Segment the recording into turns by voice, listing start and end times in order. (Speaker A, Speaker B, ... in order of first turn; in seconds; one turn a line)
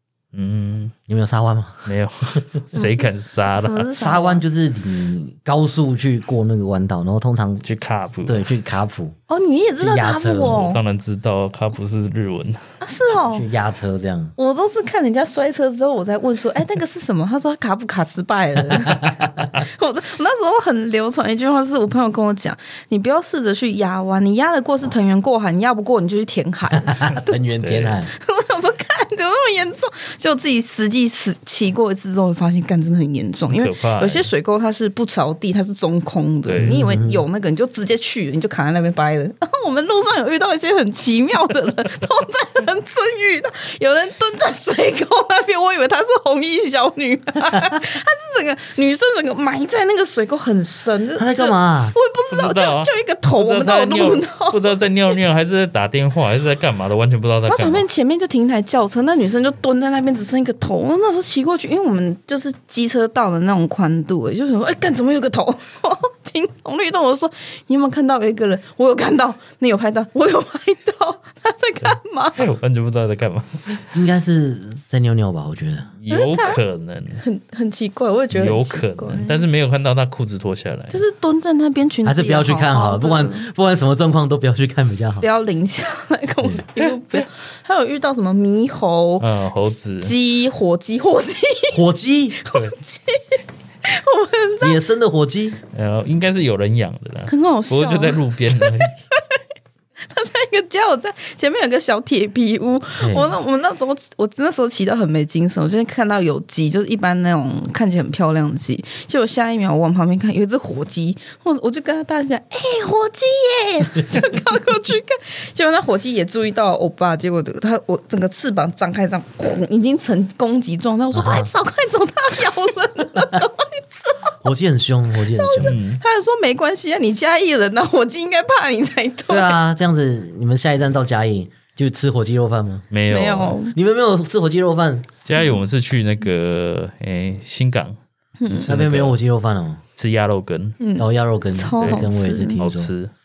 Speaker A: 0.3-0.9
Speaker B: 1.1-1.9
Speaker A: 1.9-3.9
Speaker C: 2.7-4.4
Speaker B: 4.0-7.7
Speaker A: 7.7-8.5
Speaker B: 8.2-9.2
Speaker C: 9.3-10.8
Speaker B: 9.8-10.7
Speaker A: 10.4-12.7
Speaker C: 12.8-13.5
Speaker B: 13.2-14.3
Speaker C: 14.4-27.4
Speaker B: 18.8-19.4
Speaker B: 26.9-28.1
Speaker A: 27.6-28.0
Speaker C: 28.1-54.8
Speaker A: 33.5-34.3
Speaker A: 36.5-36.8
Speaker B: 36.6-37.2
Speaker B: 51.2-52.0
Speaker A: 52.3-57.9
Speaker C: 57.5-72.5
Speaker A: 72.4-73.8
Speaker B: 73.9-75.9
Speaker A: 76.0-77.2
Speaker C: 76.1-76.6
Speaker C: 77.2-79.5
Speaker A: 78.3-81.0
Speaker C: 80.9-83.5
Speaker B: 82.0-85.2
Speaker C: 85.2-89.3
Speaker A: 89.2-90.2
Speaker C: 90.0-91.8
Speaker B: 91.7-92.4
Speaker C: 92.4-94.8
Speaker B: 94.6-95.6
Speaker A: 95.7-99.0
Speaker C: 97.3-99.4
Speaker C: 100.1-124.4
Speaker B: 103.0-103.3
Speaker B: 121.1-121.5
Speaker B: 124.4-125.8
Speaker C: 125.3-129.6
Speaker A: 125.6-126.0
Speaker B: 129.3-132.9
Speaker A: 132.9-133.6
Speaker C: 133.1-133.8
Speaker B: 133.7-135.1
Speaker A: 135.2-138.0
Speaker C: 138.4-138.7
Speaker A: 138.5-139.2
Speaker B: 138.7-139.8
Speaker A: 140.0-140.8
Speaker C: 140.8-142.6
Speaker B: 141.0-142.9
Speaker A: 141.8-143.1